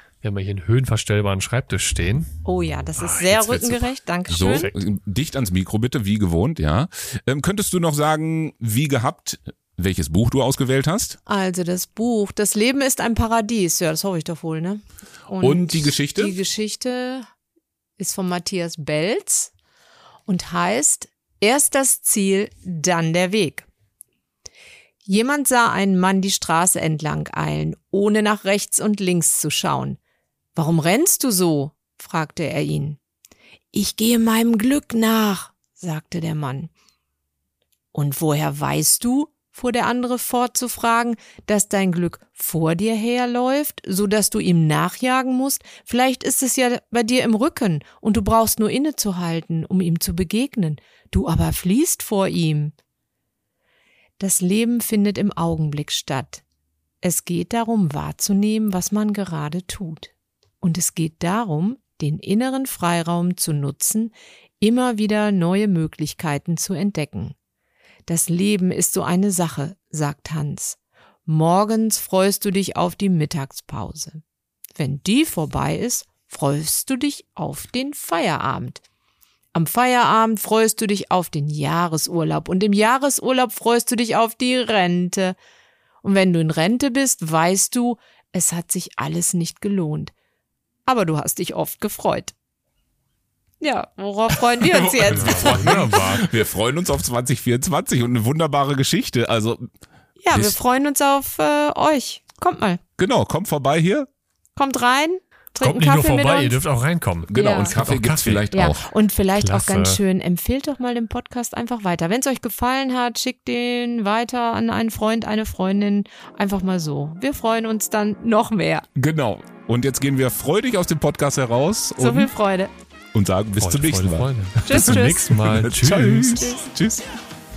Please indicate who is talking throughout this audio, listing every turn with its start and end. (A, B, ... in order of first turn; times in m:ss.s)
0:00.2-0:02.3 A
0:02.4-0:04.7 B
0:03.0-0:04.8 A
0:04.3-0:11.2 C
0:11.3-0:17.3 B
0:15.4-0:16.4 C
0:18.0-0:19.5 B
0:20.3-0:23.7 B
0:25.0-0:30.0 B
0:30.6-0:33.0 B
0:33.7-0:36.7 B
0:37.9-0:52.7 B
0:54.2-0:56.4 B
0:57.0-1:07.4 B
1:08.1-1:14.2 B
1:14.8-1:18.8 B
1:19.5-1:25.4 B
1:26.0-1:30.1 B
1:30.9-1:32.3 B
1:33.6-1:36.2 B
1:34.6-1:39.7 C
1:35.0-1:36.3 A
1:40.2-1:42.8 B
1:40.3-1:40.6 C
1:43.0-1:44.1 C
1:44.6-1:46.6 B
1:45.6-1:48.5 A
1:47.3-1:48.8 C
1:47.4-1:47.7 B
1:48.5-1:58.9 B
1:49.3-1:50.0 A
1:59.0-2:02.3 C
2:02.0-2:02.7 B
2:03.1-2:07.0 C
2:03.6-2:06.5 A
2:04.7-2:05.5 B
2:06.2-2:06.7 B